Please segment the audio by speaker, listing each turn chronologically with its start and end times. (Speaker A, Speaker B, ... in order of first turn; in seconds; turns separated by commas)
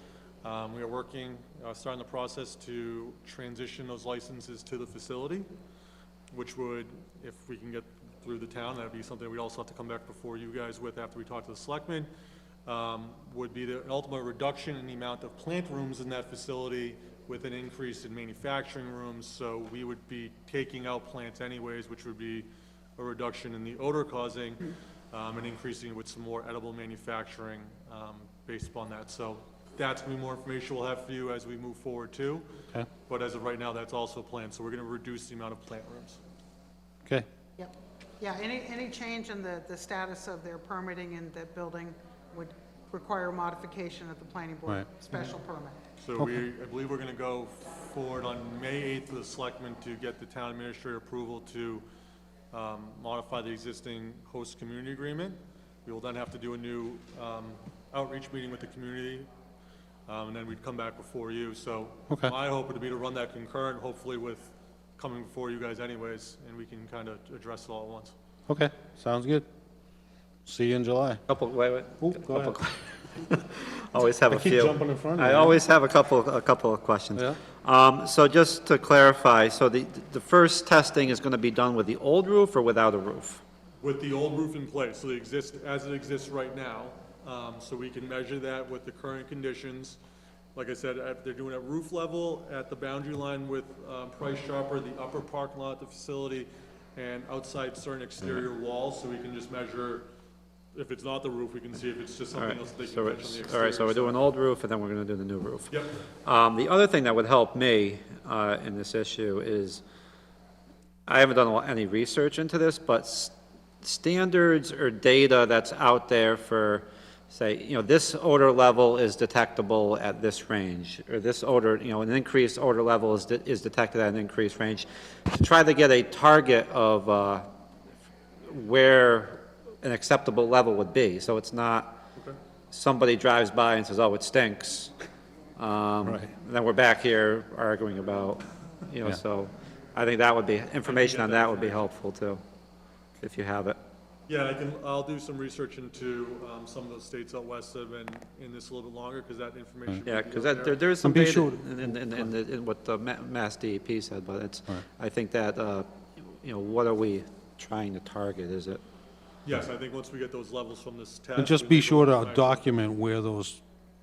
Speaker A: 0.4-5.5, Speaker A: 6.3-12.1, Speaker A: 12.7-32.5, Speaker A: 33.1-36.2, Speaker B: 37.6-45.8, Speaker A: 46.0-51.9, Speaker A: 52.5-59.3, Speaker A: 60.1-68.2, Speaker C: 68.5-69.5, Speaker C: 70.5-71.2, Speaker D: 71.3-83.4, Speaker C: 72.0-72.6, Speaker C: 74.0-75.6, Speaker A: 83.8-90.0, Speaker A: 90.5-100.1, Speaker A: 100.7-104.2, Speaker D: 102.3-109.8, Speaker A: 105.7-106.0, Speaker D: 111.1-127.5, Speaker D: 128.4-132.0, Speaker D: 132.7-134.9, Speaker D: 135.6-142.4, Speaker C: 136.0-136.3, Speaker A: 140.8-141.9, Speaker D: 143.2-143.8, Speaker A: 144.3-150.8, Speaker D: 150.1-158.8, Speaker C: 151.0-152.3, Speaker A: 159.4-162.7, Speaker C: 161.4-163.6